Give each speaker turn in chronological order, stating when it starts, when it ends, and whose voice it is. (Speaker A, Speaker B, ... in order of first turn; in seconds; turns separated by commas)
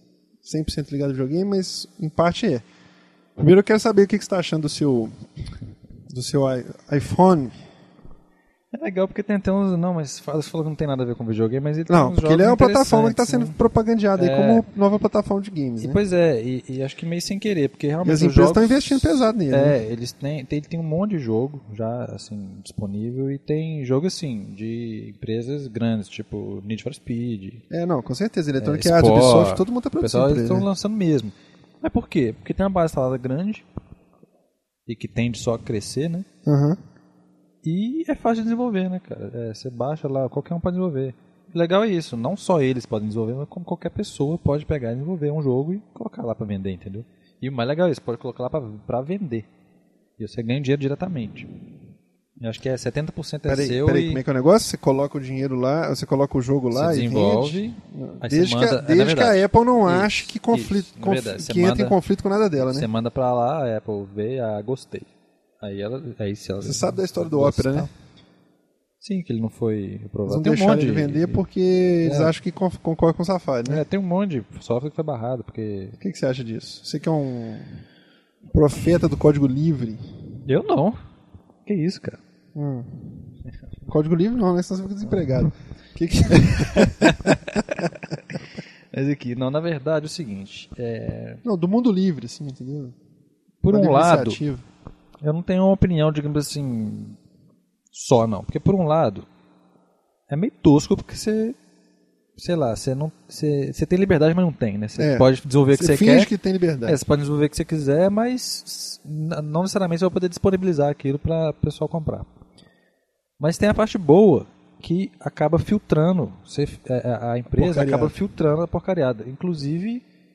Speaker A: 0.4-2.6, Speaker A: 3.4-5.2, Speaker A: 6.1-7.5, Speaker B: 8.7-13.5, Speaker A: 11.9-16.0, Speaker B: 14.2-14.7, Speaker B: 15.8-27.6, Speaker A: 18.0-19.8, Speaker A: 27.7-30.7, Speaker B: 28.6-33.6, Speaker B: 34.9-36.3, Speaker A: 36.5-36.8, Speaker B: 37.6-49.5, Speaker B: 50.2-51.5, Speaker B: 52.4-54.2, Speaker A: 53.5-62.9, Speaker B: 56.7-62.0, Speaker B: 62.6-65.1, Speaker B: 65.6-67.9, Speaker A: 66.6-67.9, Speaker B: 69.0-71.4, Speaker A: 70.2-73.8, Speaker B: 72.0-72.3, Speaker B: 73.7-76.0, Speaker A: 76.0-77.8, Speaker A: 78.5-80.2, Speaker B: 80.5-81.0, Speaker B: 81.7-82.2, Speaker A: 82.5-83.2, Speaker A: 83.9-87.9, Speaker B: 86.8-91.4, Speaker A: 91.4-93.0, Speaker B: 93.6-94.4, Speaker A: 93.7-94.6, Speaker B: 95.2-97.2, Speaker B: 97.9-99.3, Speaker B: 100.3-101.6, Speaker B: 102.4-106.3, Speaker A: 105.0-107.0, Speaker B: 106.8-112.3, Speaker B: 113.4-120.0, Speaker A: 117.5-118.2